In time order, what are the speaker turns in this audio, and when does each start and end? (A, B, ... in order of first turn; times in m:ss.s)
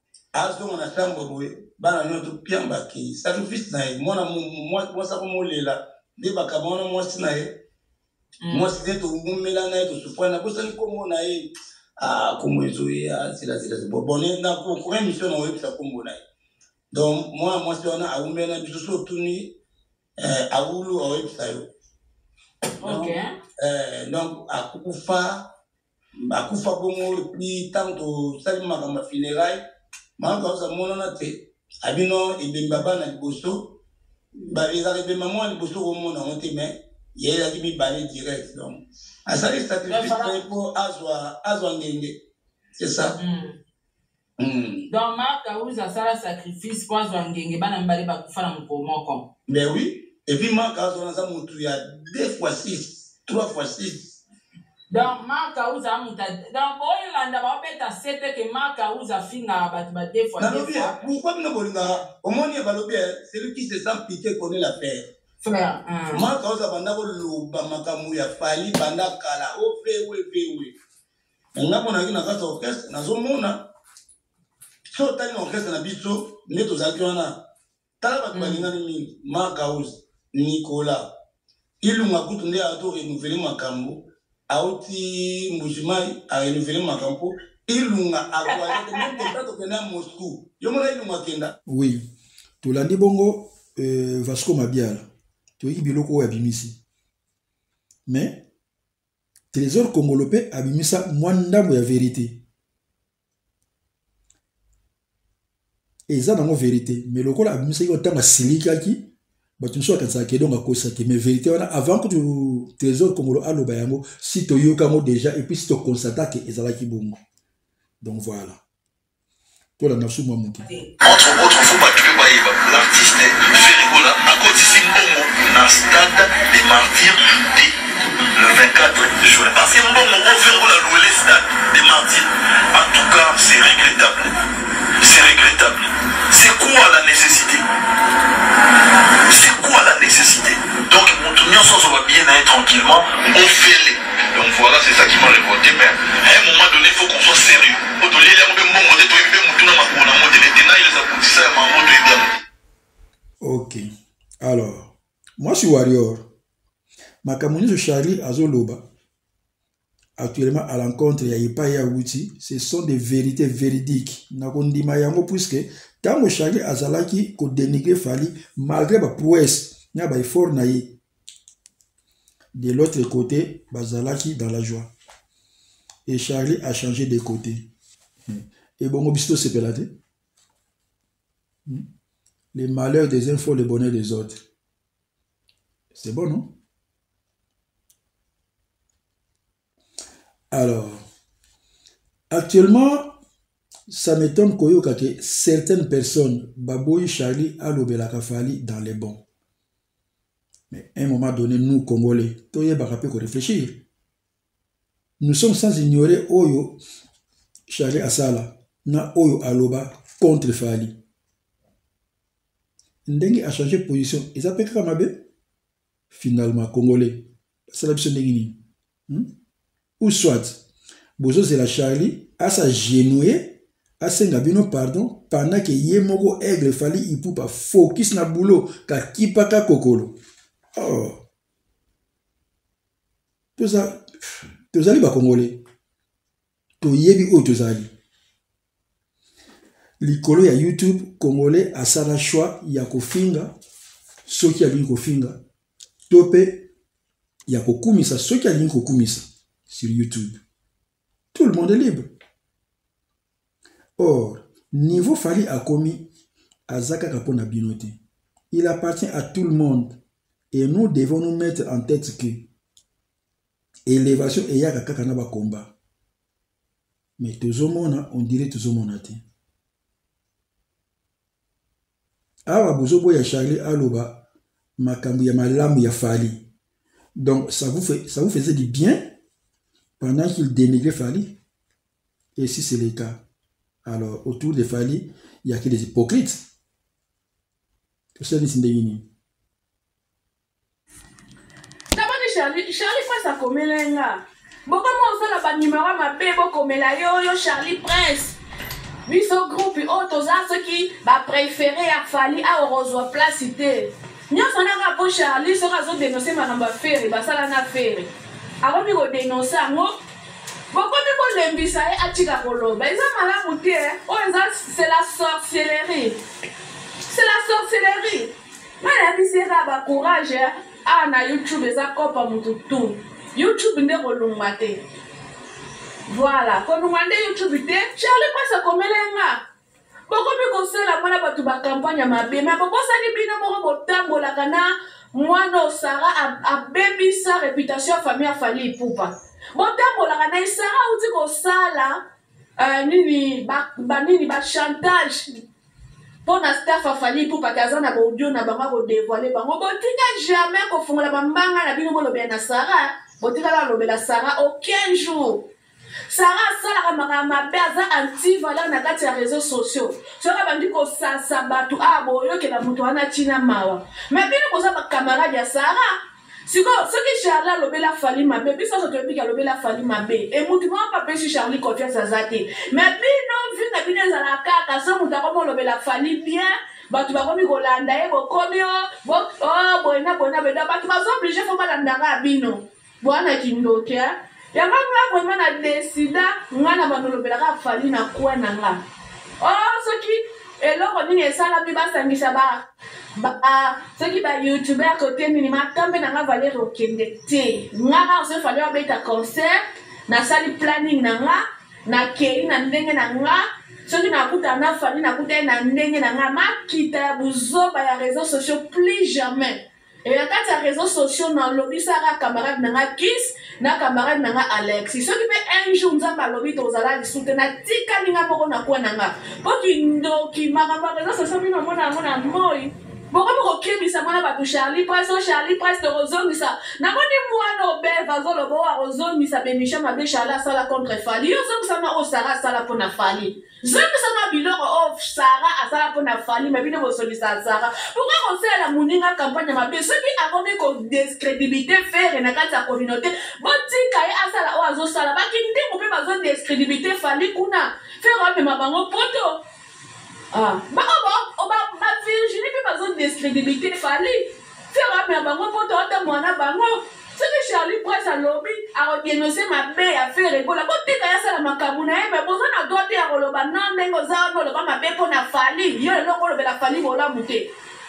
0:00.3-0:07.6 A
0:08.4-0:08.7 B
0:08.5-0:11.5 A
0:12.0-0:16.2 A
0:16.9-0:19.5 A
0:20.2-0:21.6 A
0:22.8-0:23.3 B
0:22.8-0:25.5 A
0:26.3-0:29.6 A
0:30.2-0:33.8 A
0:34.4-0:42.2 A
0:39.9-0:40.4 B
0:42.8-0:43.2 A
0:43.2-0:43.6 B
0:44.4-0:44.9 A
0:44.9-0:49.2 B
0:49.5-0:54.2 A
0:54.9-1:01.0 B
1:00.4-1:05.1 A
1:05.4-1:06.3 B
1:06.1-1:10.8 A
1:11.5-1:13.7 A
1:14.9-1:17.4 A
1:18.0-1:21.1 A
1:18.3-1:18.7 B
1:21.8-1:31.5 A
1:28.7-1:29.2 B
1:31.6-1:32.1 C
1:32.6-1:35.1 C
1:35.6-1:36.8 C
1:38.1-1:38.4 C
1:39.5-1:42.4 C
1:46.1-1:57.2 C
1:58.0-1:58.6 C
1:59.8-2:00.7 C
2:01.0-2:07.7 D
2:08.4-2:14.3 D
2:15.0-2:17.6 D
2:19.2-2:32.3 D
2:33.4-2:33.8 C
2:34.4-2:36.3 C
2:37.2-2:38.8 C
2:40.2-2:51.0 C
2:52.5-2:54.9 C
2:56.1-2:57.7 C
2:58.3-2:59.9 C
3:02.5-3:04.4 C
3:05.9-3:06.5 C
3:10.5-3:11.0 C
3:12.3-3:13.2 C
3:13.9-3:19.2 C
3:20.7-3:23.8 C
3:25.2-3:26.8 C
3:27.7-3:31.0 C
3:33.0-3:35.2 C
3:36.1-3:39.3 C
3:40.0-3:40.6 C
3:41.2-3:50.2 C
3:50.7-3:51.2 C
3:53.6-3:54.1 C
3:54.7-3:55.6 C
3:56.8-3:57.9 C
4:00.0-4:03.6 C
4:04.2-4:05.4 C
4:06.1-4:06.7 C
4:07.5-4:10.4 C
4:11.3-4:12.1 C
4:14.0-4:16.1 C
4:16.7-4:18.0 C
4:18.5-4:20.0 C
4:20.5-4:22.5 C
4:23.8-4:25.7 C
4:27.2-4:29.2 C
4:32.5-4:34.2 C
4:34.8-4:36.4 C
4:37.2-4:39.1 C
4:40.0-4:41.4 C
4:42.4-4:43.2 C
4:43.8-4:46.4 C
4:48.2-4:49.0 C
4:51.9-4:58.4 E
4:59.1-5:08.1 E
5:08.6-5:10.0 E
5:10.7-5:16.2 E
5:17.1-5:24.8 E
5:26.1-5:29.4 E
5:30.1-5:42.0 E
5:42.6-5:45.3 E
5:46.2-5:55.4 E
5:56.1-6:06.0 E
6:06.5-6:28.8 E
6:29.4-6:32.6 E
6:33.2-7:29.4 E
7:30.3-7:47.5 E